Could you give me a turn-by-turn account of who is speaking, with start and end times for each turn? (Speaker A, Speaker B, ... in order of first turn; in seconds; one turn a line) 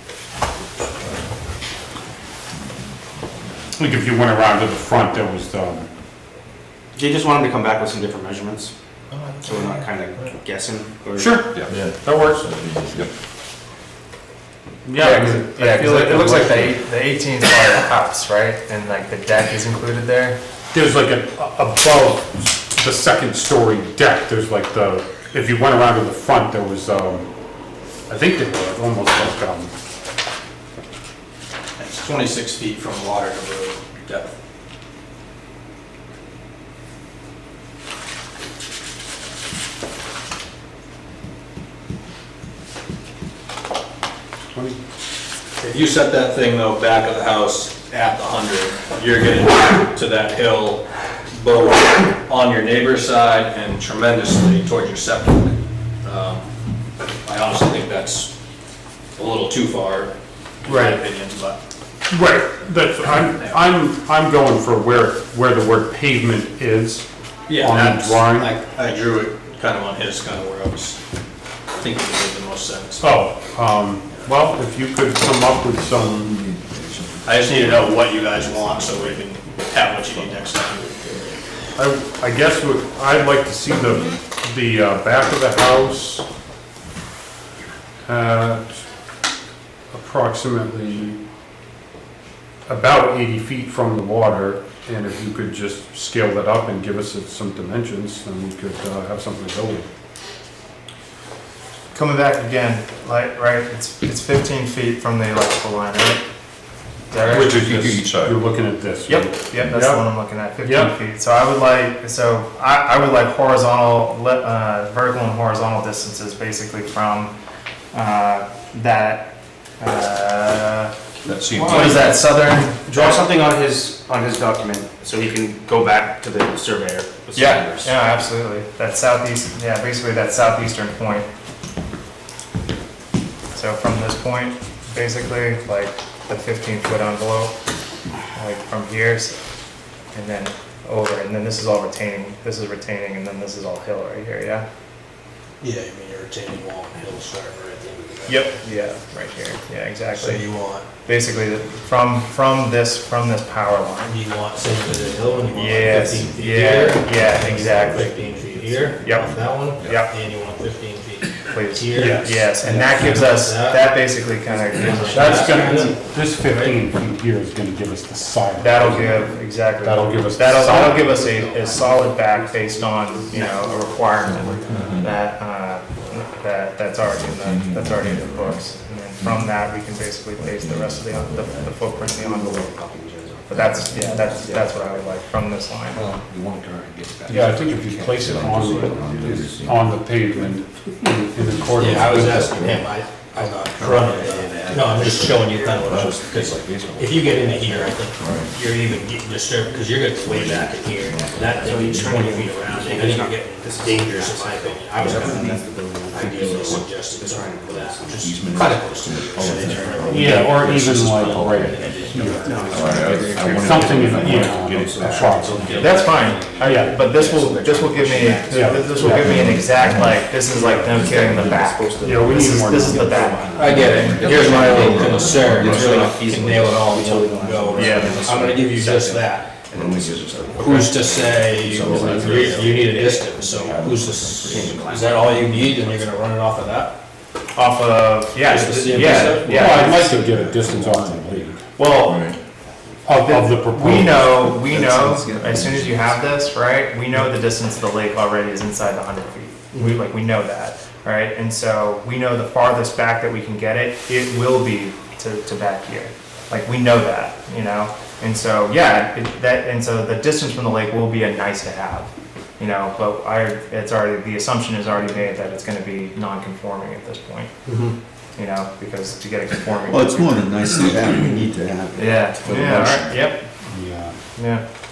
Speaker A: 3.8-5.9
Speaker B: 7.0-8.7
Speaker B: 9.4-11.8
Speaker A: 11.2-12.4
Speaker C: 11.7-13.1
Speaker A: 14.8-16.8
Speaker D: 15.0-20.4
Speaker A: 20.7-27.3
Speaker A: 28.1-29.7
Speaker E: 31.8-34.4
Speaker A: 44.5-44.8
Speaker E: 45.6-56.5
Speaker E: 57.2-58.3
Speaker E: 59.2-61.6
Speaker A: 60.7-61.0
Speaker A: 62.1-68.5
Speaker E: 67.5-71.0
Speaker E: 71.7-73.2
Speaker A: 73.0-76.3
Speaker C: 76.4-79.3
Speaker E: 77.2-81.0
Speaker C: 80.2-80.7
Speaker A: 81.8-86.2
Speaker A: 88.1-88.8
Speaker A: 89.9-91.2
Speaker A: 92.7-99.9
Speaker D: 101.9-106.2
Speaker D: 107.1-108.0
Speaker A: 107.3-111.0
Speaker D: 109.1-117.3
Speaker D: 117.9-120.9
Speaker B: 121.3-122.2
Speaker D: 121.6-123.3
Speaker B: 122.9-127.9
Speaker D: 127.3-131.3
Speaker D: 133.5-137.6
Speaker D: 138.3-139.4
Speaker D: 140.1-144.7
Speaker E: 145.6-148.7
Speaker D: 148.3-150.5
Speaker E: 150.2-150.9
Speaker D: 151.1-154.2
Speaker E: 154.0-166.8
Speaker D: 155.5-158.1
Speaker F: 155.8-156.2
Speaker C: 156.0-156.3
Speaker C: 157.7-158.1
Speaker D: 159.0-160.1
Speaker D: 161.4-165.9
Speaker A: 161.9-162.3
Speaker A: 165.1-171.1
Speaker D: 168.6-182.8
Speaker F: 171.2-171.9
Speaker F: 172.8-174.1
Speaker B: 173.3-173.7
Speaker C: 174.2-175.1
Speaker B: 174.3-175.0
Speaker C: 177.0-182.4
Speaker B: 182.6-183.2
Speaker D: 183.5-186.1
Speaker F: 183.6-184.9
Speaker C: 183.9-184.4
Speaker F: 186.0-189.7
Speaker A: 187.3-192.5
Speaker C: 188.1-189.9
Speaker C: 191.5-192.9
Speaker E: 191.8-213.6
Speaker F: 193.7-197.9
Speaker B: 194.2-195.2
Speaker C: 195.9-196.4
Speaker B: 197.4-197.8
Speaker C: 198.2-198.5
Speaker C: 200.3-202.4
Speaker F: 201.5-202.1
Speaker B: 201.6-210.1
Speaker F: 205.0-206.9
Speaker F: 208.2-211.5
Speaker C: 208.4-214.7
Speaker A: 210.1-215.9
Speaker B: 212.4-219.2
Speaker F: 212.5-216.2
Speaker E: 215.3-216.6
Speaker D: 215.8-225.2
Speaker A: 216.6-217.0
Speaker A: 218.5-219.5
Speaker C: 219.1-221.8
Speaker F: 219.3-219.6
Speaker B: 220.6-221.2
Speaker F: 220.9-221.6
Speaker B: 221.7-230.9
Speaker A: 222.0-223.3
Speaker F: 222.9-225.7
Speaker E: 223.6-229.5
Speaker C: 223.6-226.1
Speaker D: 227.7-228.2
Speaker C: 229.8-236.3
Speaker F: 229.9-233.0
Speaker E: 230.6-237.0
Speaker B: 231.6-233.3
Speaker F: 234.6-235.4
Speaker D: 237.5-240.0
Speaker E: 238.4-240.0
Speaker F: 238.6-241.6
Speaker A: 239.2-241.6
Speaker D: 241.8-242.3
Speaker C: 242.1-242.4
Speaker F: 242.8-243.1
Speaker A: 243.1-244.4
Speaker D: 243.2-267.5
Speaker F: 243.8-246.5
Speaker E: 267.7-268.0
Speaker D: 268.4-270.7
Speaker F: 269.9-273.2
Speaker D: 271.9-273.5
Speaker A: 273.7-274.2
Speaker D: 274.4-274.6